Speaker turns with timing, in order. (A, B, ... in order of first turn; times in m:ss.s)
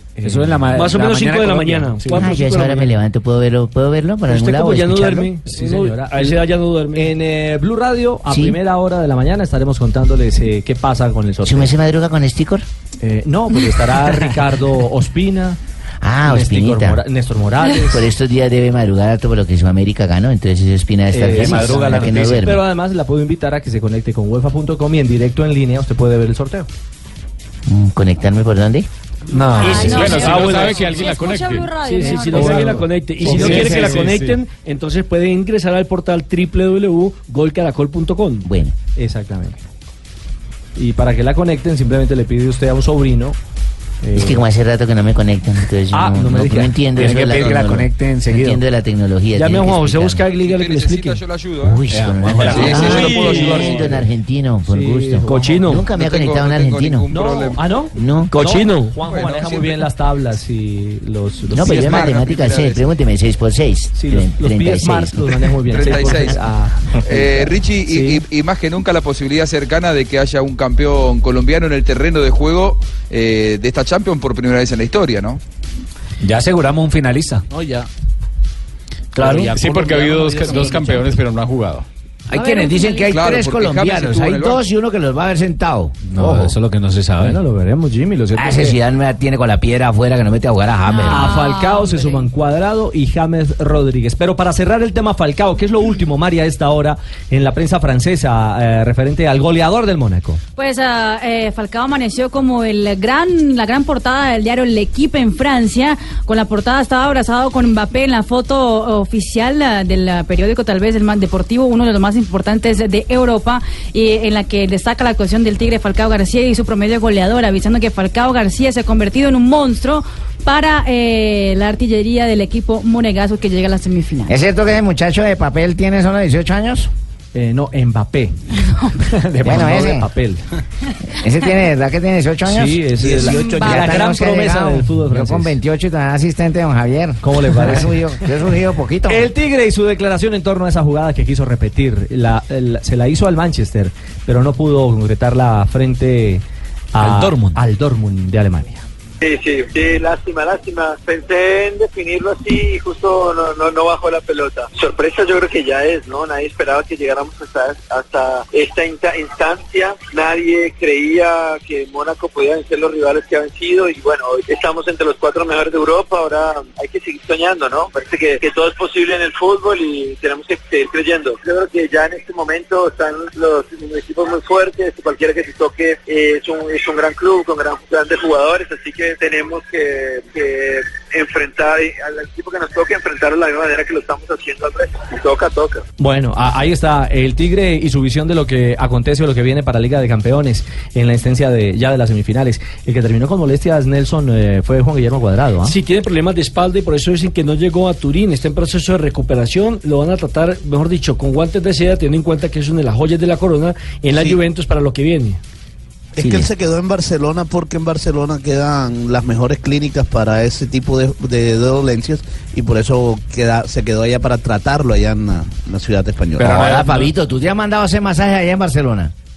0:00.2-0:00.8 A
0:00.2-0:02.2 B
0:00.7-0:03.0 C
0:02.2-0:05.3 D
0:04.3-0:07.1 C
0:04.6-0:11.7 A
0:11.4-0:12.6 D
0:13.0-0:15.6 A
0:16.0-0:17.0 D
0:16.2-0:18.1 A
0:17.9-0:22.6 D
0:21.1-0:26.7 A
0:21.4-0:22.4 B
0:27.7-0:28.8 D
0:29.3-0:29.7 B
0:29.3-0:32.7 E
0:29.4-0:30.8 C
0:29.6-0:31.9 F
0:31.8-0:38.5 C
0:32.0-0:34.0 A
0:33.2-0:34.4 F
0:38.4-0:38.7 D
0:39.0-0:39.6 A
0:40.8-0:43.4 A
0:44.0-0:44.5 A
0:44.1-0:50.2 D
0:45.9-0:46.8 A
0:46.9-0:48.6 B
0:49.4-0:51.1 C
0:49.4-0:51.1 A
0:50.4-0:51.8 G
0:51.6-0:57.0 D
0:52.0-0:54.0 A
0:52.4-0:53.8 G
0:52.8-0:53.7 C
0:54.6-0:55.7 A
0:55.2-0:55.9 C
0:55.9-0:57.6 G
0:57.1-1:02.2 A
0:57.9-0:58.3 D
0:58.3-0:59.0 C
0:59.1-0:59.8 G
1:01.5-1:05.2 D
1:01.6-1:02.8 G
1:03.9-1:08.2 A
1:05.7-1:06.4 G
1:07.0-1:15.4 G
1:16.2-1:17.4 B
1:19.1-1:20.3 B
1:19.5-1:21.8 F
1:20.4-1:20.8 E
1:22.3-1:26.0 H
1:22.3-1:23.1 E
1:23.1-1:24.6 G
1:26.0-1:27.4 B
1:26.2-1:26.5 A
1:27.2-1:28.8 A
1:28.3-1:31.4 H
1:30.8-1:32.3 E
1:31.1-1:40.4 A
1:40.6-2:04.4 E
2:04.3-2:06.9 H
2:07.3-2:08.4 A
2:08.6-2:09.0 E
2:09.2-2:10.4 A
2:09.4-2:10.1 H
2:11.2-2:19.3 H
2:12.4-2:15.5 A
2:13.0-2:13.8 I
2:13.3-2:13.8 E
2:17.2-2:18.0 A
2:19.1-2:26.4 A
2:26.9-2:28.8 A
2:27.0-2:27.6 B
2:29.2-3:05.8 J
3:06.0-3:15.8 A
3:15.6-3:25.4 C
3:26.2-3:36.8 I
3:36.4-3:39.1 H